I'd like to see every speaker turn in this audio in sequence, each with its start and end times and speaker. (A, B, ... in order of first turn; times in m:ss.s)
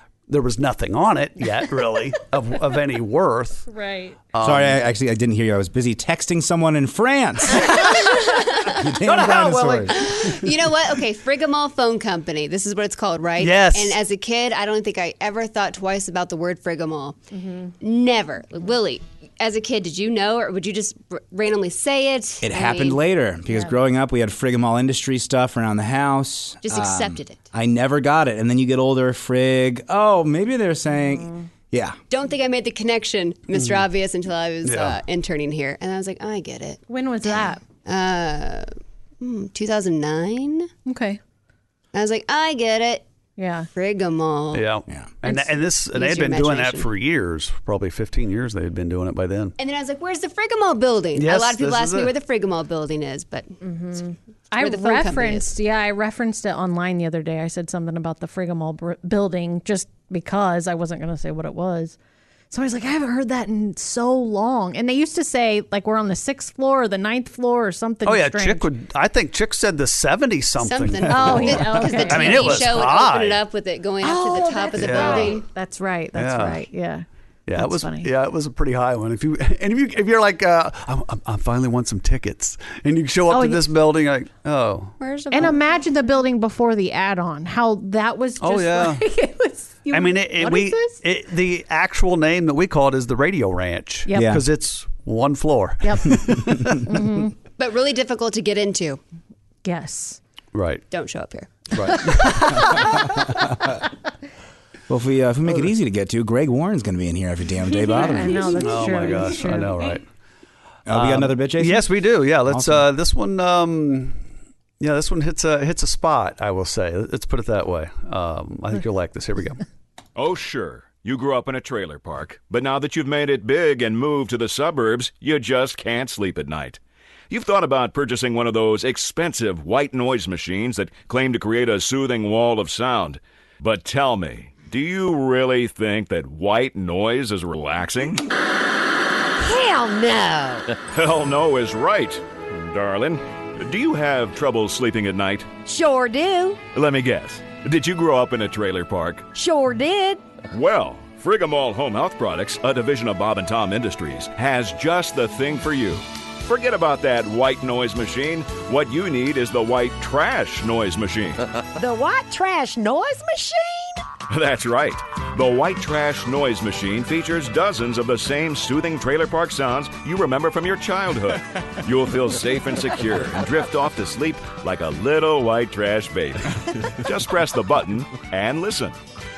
0:00.3-0:03.7 A
0:03.7-0:04.2 B
0:04.3-0:04.8 A
0:04.4-0:10.2 C
0:08.2-0:08.7 D
0:09.1-0:09.4 A
0:09.9-0:17.2 D
0:13.4-0:14.0 A
0:17.3-0:17.7 B
0:17.8-0:23.0 D
0:22.4-0:32.0 C
0:26.6-0:27.4 D
0:31.1-0:31.4 B
0:32.1-0:38.7 D
0:34.6-0:35.0 A
0:36.9-0:37.6 B
0:39.2-0:40.7 D
0:40.8-0:41.2 B
0:41.9-0:43.0 D
0:43.4-0:43.7 B
0:43.7-0:44.6 D
0:44.5-0:49.5 A
0:45.9-0:46.9 D
0:49.6-0:53.6 D
0:51.1-0:52.1 A
0:53.6-1:02.0 B
0:54.6-0:55.5 D
1:02.5-1:08.7 B
1:08.0-1:13.4 A
1:10.6-1:15.4 D
1:11.1-1:12.8 B
1:14.0-1:18.1 B
1:14.8-1:15.4 A
1:16.2-1:16.7 A
1:17.5-1:24.9 A
1:23.3-1:23.7 B
1:25.0-1:25.6 D
1:25.3-1:31.0 B
1:28.4-1:29.0 A
1:29.9-1:36.9 A
1:34.1-1:34.4 C
1:35.8-1:37.3 B
1:37.6-1:39.0 D
1:39.6-1:40.2 B
1:40.5-1:40.8 A
1:40.9-1:42.4 D
1:41.7-1:42.6 A
1:42.6-1:43.8 C
1:44.9-1:48.6 C
1:47.7-1:49.7 B
1:48.5-1:50.0 A
1:50.8-1:52.9 C
1:50.9-1:54.2 A
1:54.8-1:59.6 A
2:00.2-2:18.2 E
2:19.4-2:20.7 F
2:20.9-2:25.6 E
2:25.6-2:26.6 F
2:26.7-2:29.3 E
2:29.3-2:30.2 F
2:30.5-2:41.4 E
2:41.8-2:44.0 F
2:44.3-2:59.0 E